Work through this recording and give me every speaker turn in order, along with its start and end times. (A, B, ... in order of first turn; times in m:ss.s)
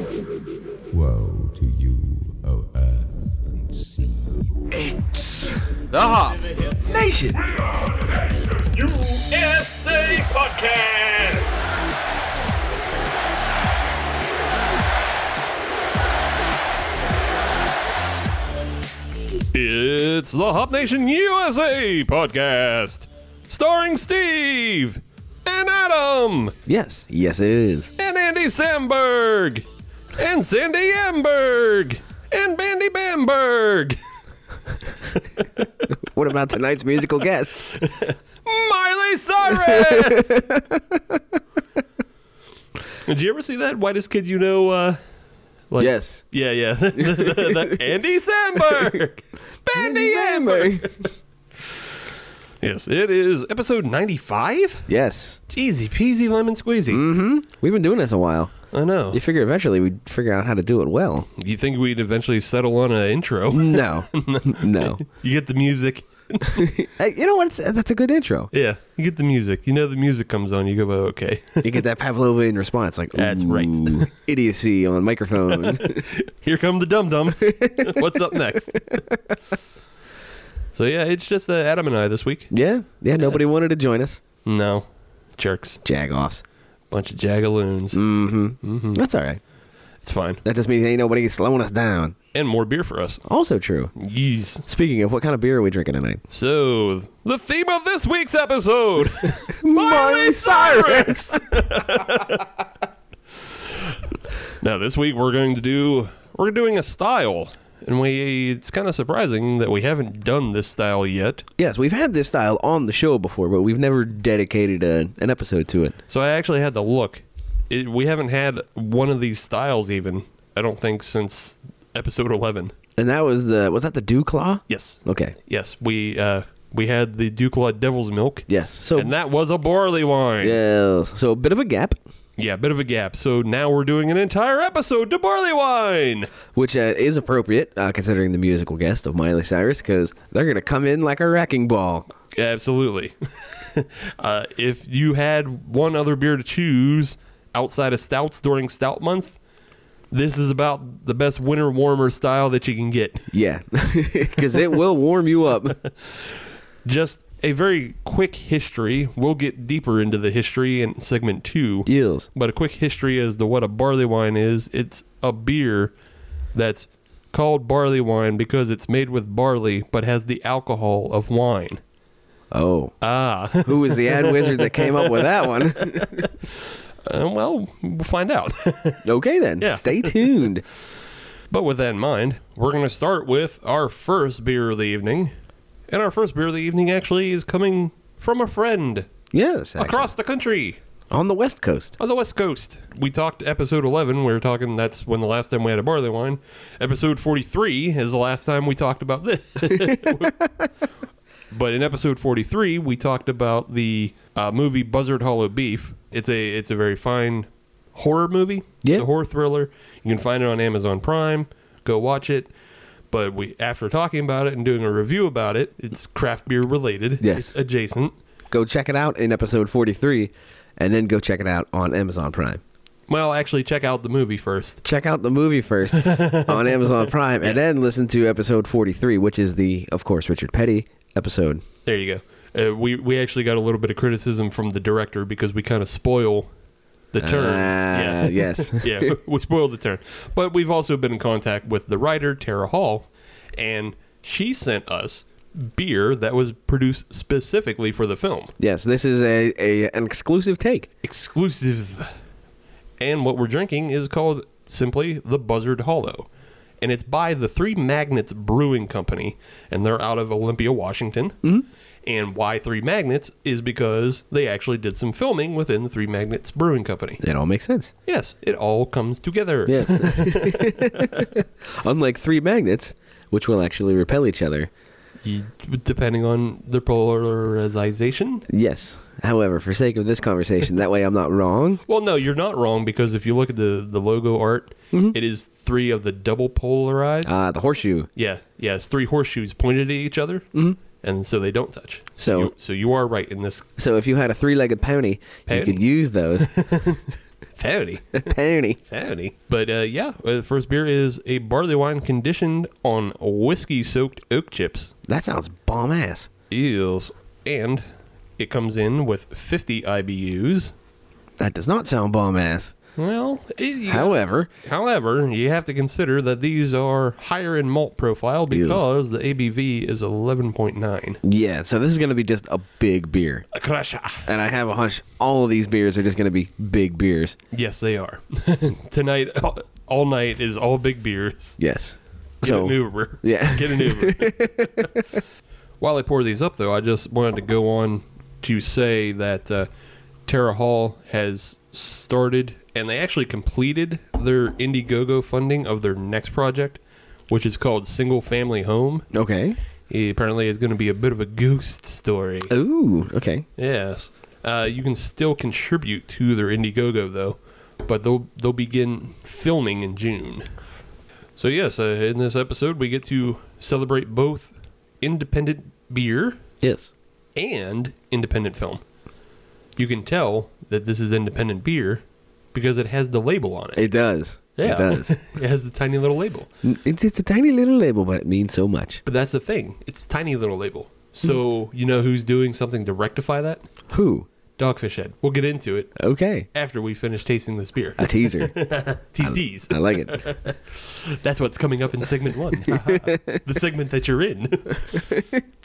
0:00.9-0:04.8 A
0:07.4-0:11.6 B
0:19.5-0:26.6 B
0:26.6-0:27.9 C
0:28.0-0:34.0 B
0:35.1-0:35.8 B
0:36.0-0:37.6 C
0:37.7-0:40.4 B
0:39.6-0:41.2 C
0:43.0-0:45.0 B
0:45.7-0:51.0 B
0:45.8-0:46.2 C
0:47.0-0:47.7 C
0:49.7-0:50.9 C
0:52.6-0:54.9 B
0:54.9-0:55.4 C
0:55.5-0:57.0 B
0:56.9-0:58.5 C
0:58.7-0:59.2 B
0:59.1-1:01.3 C
1:01.4-1:06.7 B
1:03.5-1:05.0 C
1:06.5-1:08.5 C
1:08.5-1:11.8 B
1:11.6-1:16.0 C
1:13.1-1:14.1 B
1:15.5-1:19.0 B
1:17.4-1:19.2 C
1:20.7-1:22.5 B
1:22.5-1:24.2 C
1:24.4-1:25.8 B
1:25.8-1:26.4 C
1:26.9-1:28.0 B
1:27.9-1:29.4 C
1:28.6-1:29.0 B
1:30.0-1:30.4 B
1:30.4-1:32.1 C
1:32.3-1:33.2 B
1:33.3-1:33.9 C
1:34.0-1:34.6 B
1:34.6-1:36.2 C
1:36.3-1:42.5 B
1:39.5-1:41.4 C
1:43.6-1:44.0 B
1:44.6-1:51.5 B
1:51.6-1:56.0 C
1:56.1-2:02.7 B
2:03.0-2:05.3 C
2:04.7-2:10.6 B
2:08.5-2:09.1 C
2:10.4-2:12.0 C
2:12.4-2:16.3 B
2:16.5-2:22.1 C
2:22.3-2:29.4 B
2:30.1-2:33.3 B
2:33.3-2:35.8 C
2:36.0-2:45.9 B
2:41.8-2:42.3 C
2:46.5-2:51.8 B
2:52.5-2:52.9 C
2:53.0-2:59.0 B
2:53.6-2:56.3 C
2:59.0-3:00.6 C
2:59.6-3:00.5 B
3:01.5-3:05.3 B
3:05.9-3:09.1 B
3:09.3-3:10.1 C
3:09.8-3:10.8 B
3:11.1-3:12.0 C
3:12.0-3:20.4 B
3:21.5-3:32.5 B
3:33.1-3:38.1 B
3:37.2-3:37.5 C
3:38.5-3:42.6 C
3:43.1-3:44.8 B
3:44.8-3:51.6 C
3:45.9-3:47.6 B
3:51.8-3:56.5 B
3:57.1-4:08.5 B
3:57.2-3:59.1 C
4:08.6-4:10.9 C
4:11.0-4:12.1 B
4:13.0-4:16.3 B
4:16.8-4:21.4 B
4:22.0-4:27.2 B
4:27.2-4:27.9 C
4:28.0-4:31.2 B
4:29.7-4:34.7 C
4:35.2-4:38.4 B
4:38.5-4:41.8 C
4:41.8-4:47.3 B
4:47.2-4:48.1 C
4:48.2-4:53.6 B
4:52.2-4:52.5 C
4:53.8-4:56.5 C
4:55.5-4:55.8 B
4:56.4-4:58.3 B
4:58.2-4:58.8 C
4:58.9-5:04.9 B
5:05.1-5:06.3 C
5:06.5-5:07.8 B
5:08.4-5:10.7 B
5:11.4-5:12.7 C
5:13.0-5:21.2 B
5:13.9-5:14.5 C
5:18.5-5:18.8 C
5:21.2-5:23.4 C
5:23.5-5:24.3 B
5:24.2-5:27.4 C
5:27.5-5:31.6 B
5:31.6-5:35.0 C
5:32.4-5:34.9 B
5:35.8-5:39.7 B
5:40.2-5:49.1 B
5:49.1-5:49.6 C
5:49.9-5:52.5 B
5:52.5-5:53.4 C
5:53.6-6:00.5 B
6:01.4-6:06.4 B
6:06.6-6:06.9 C
6:07.3-6:08.8 B
6:09.8-6:13.9 B
6:13.8-6:15.2 C
6:14.6-6:16.5 B
6:16.6-6:19.0 C
6:19.0-6:23.6 B
6:23.9-6:24.3 C
6:24.6-6:26.0 B
6:26.0-6:26.5 C
6:26.5-6:35.0 B
6:28.0-6:28.6 C
6:29.2-6:30.2 C
6:32.7-6:33.4 C
6:34.9-6:35.4 C